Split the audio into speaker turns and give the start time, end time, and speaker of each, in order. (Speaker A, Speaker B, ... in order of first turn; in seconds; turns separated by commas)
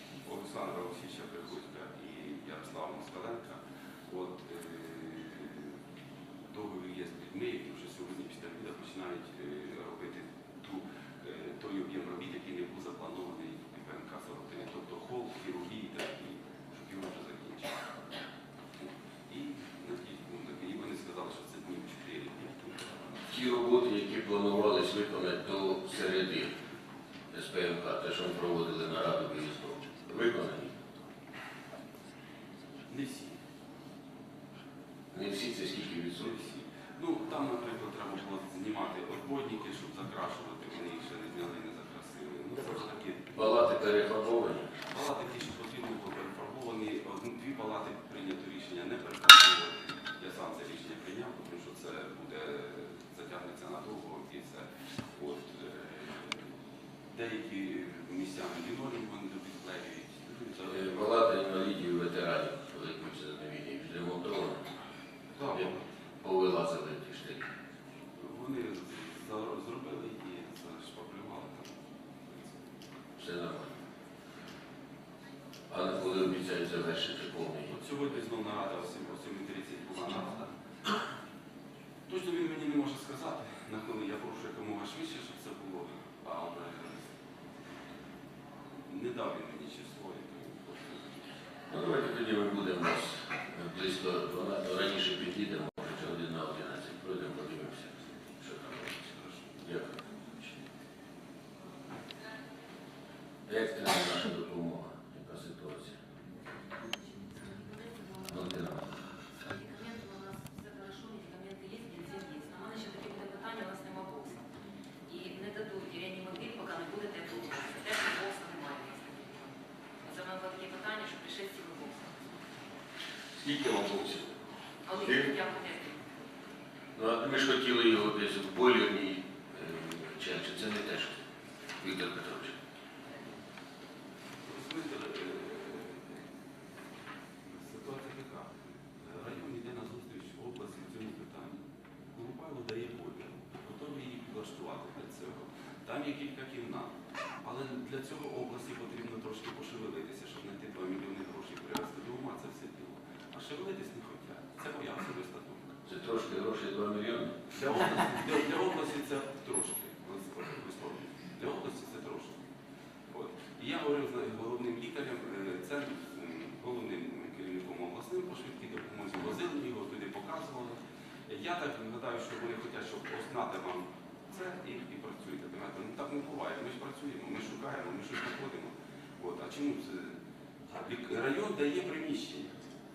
Speaker A: 0.2-5.8, Speaker A: 6.5-17.9, Speaker A: 19.3-23.3, Speaker B: 23.3-26.5, Speaker B: 27.3-30.8, Speaker A: 32.9-33.4, Speaker B: 35.1-36.3, Speaker A: 36.2-43.3, Speaker B: 43.3-44.7, Speaker A: 44.9-56.5, Speaker A: 57.1-61.1, Speaker B: 60.7-64.7, Speaker A: 65.3-65.8, Speaker B: 66.2-67.5, Speaker A: 68.2-72.6, Speaker B: 73.2-73.8, Speaker B: 75.7-77.8, Speaker A: 77.7-80.5, Speaker A: 82.1-87.1, Speaker A: 88.8-91.2, Speaker B: 91.7-100.6, Speaker A: 99.1-99.6, Speaker B: 103.5-106.0, Speaker C: 107.5-108.2, Speaker B: 108.3-109.0, Speaker C: 109.4-114.4, Speaker C: 115.1-122.2, Speaker B: 123.3-124.3, Speaker C: 124.9-126.0, Speaker B: 124.9-125.3, Speaker B: 127.0-131.2, Speaker B: 131.8-132.6, Speaker A: 134.4-136.2, Speaker A: 137.5-155.8, Speaker B: 155.9-157.4, Speaker A: 157.5-162.4, Speaker A: 163.1-180.2, Speaker A: 180.7-182.5